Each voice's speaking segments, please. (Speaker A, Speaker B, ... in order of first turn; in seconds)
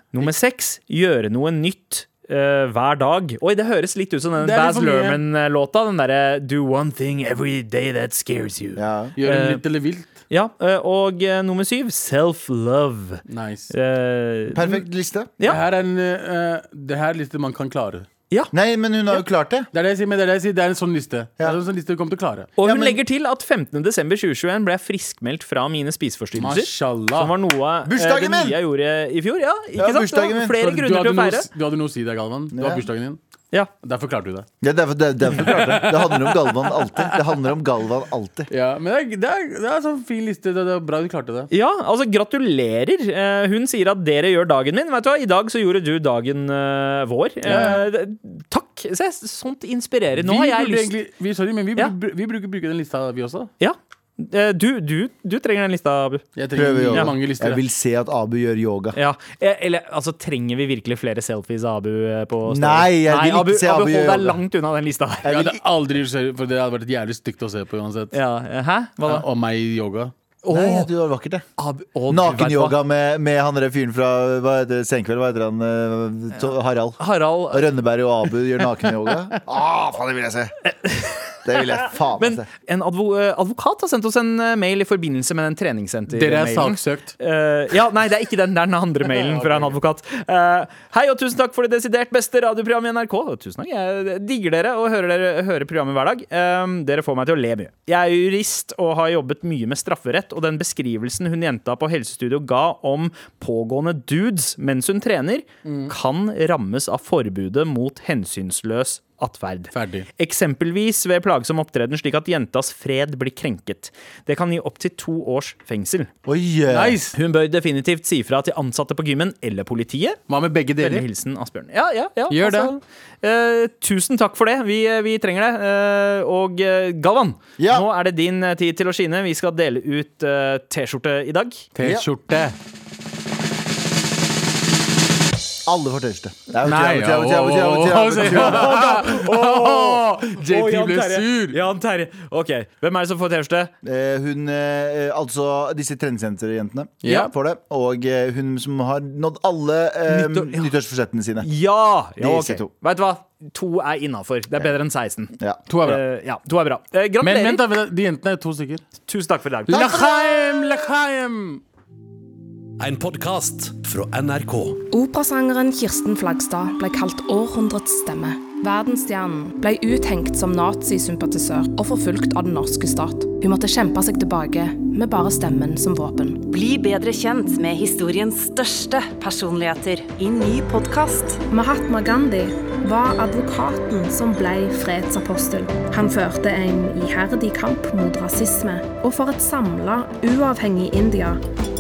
Speaker A: 0.1-9.6, 10.3-14.8, 22.6-31.5, 41.5-50.9, 53.6-56.2, 58.9-65.3, 68.1-69.2, 70.4-70.9, 71.6-72.8, 77.0-77.7, 82.2-116.1, 117.1-120.2, 120.8-131.6, 138.4-143.7, 150.1-150.7, 151.4-157.6, 159.1-159.9
Speaker B: 4.4-5.2, 9.2-10.1, 13.3-13.7, 15.4-18.1, 19.7-22.5, 26.4-27.4, 30.6-33.2, 33.8-34.5, 35.3-37.0, 38.5-41.5, 47.5-47.9, 50.2-53.5, 56.4-57.6, 65.3-68.2, 69.0-70.1, 86.1-87.2, 89.0-89.8, 105.7-105.9, 109.7-110.1, 116.7-117.2, 120.3-121.0, 122.3-122.8, 131.8-132.6, 136.6-141.6, 147.0-147.3, 155.7-156.0, 157.2-158.8, 159.7-161.6
Speaker C: 8.8-9.2, 14.5-15.3, 18.5-19.7, 22.6-23.0, 27.9-28.6, 29.8-30.6, 32.5-32.9, 34.6-38.5, 56.5-59.0, 62.5-64.4, 65.2-65.6, 70.5-71.5, 72.1-80.7, 81.4-82.5, 116.2-117.0, 127.6-127.9, 131.8-132.1, 135.6-139.1, 143.8-151.5, 152.2-152.7, 159.7-160.3
Speaker D: 162.8-164.8
Speaker E: 164.9-176.4, 181.5-191.4
Speaker F: 176.5-181.4